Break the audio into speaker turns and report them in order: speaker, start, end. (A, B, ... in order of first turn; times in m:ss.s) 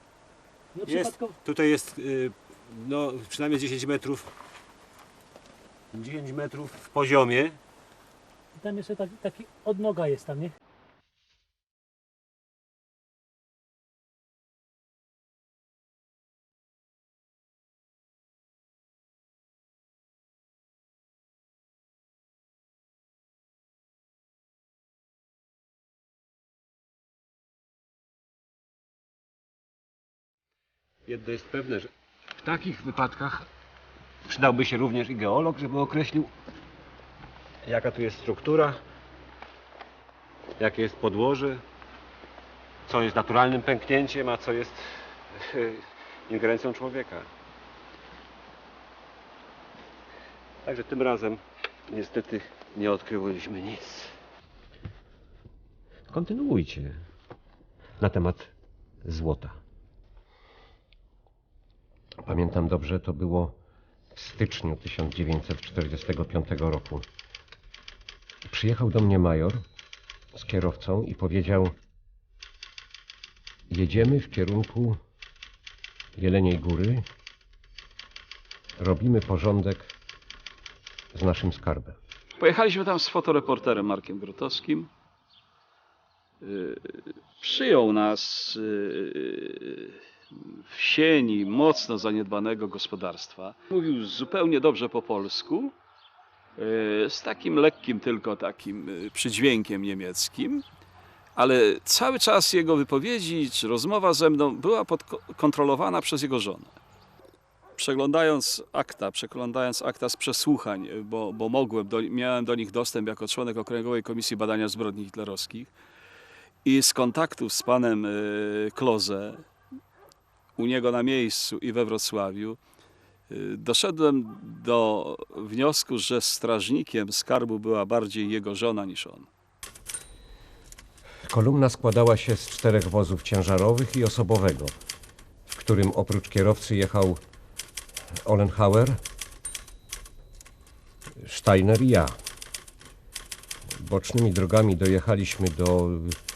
0:00.7-0:01.3 A
0:00.8-0:04.3 B
0:05.9-0:07.6 B
0:08.5-0:10.5 A
0:31.0-0:33.5 B
0:34.3-0:36.3 B
0:37.6-0:38.8 B
0:40.6-0:41.6 B
0:42.8-0:47.3 B
0:50.6-0:54.1 B
0:56.1-0:57.0 B
0:58.0-0:58.5 B
0:59.0-0:59.6 B
1:02.2-1:03.5 C
1:04.1-1:07.0 C
1:08.4-1:09.6 C
1:10.3-1:11.7 C
1:13.7-1:15.0 C
1:16.2-1:17.0 C
1:18.8-1:19.9 C
1:21.1-1:22.0 C
1:22.4-1:24.9 D
1:26.4-1:35.7 D
1:36.6-1:40.6 D
1:41.3-1:46.8 D
1:47.8-1:55.7 D
1:56.6-1:59.4 D
2:00.6-2:02.6 D
2:03.3-2:09.3 D
2:11.2-2:14.7 C
2:15.5-2:17.2 C
2:18.2-2:19.0 C
2:21.2-2:22.2 C
2:23.8-2:26.2 C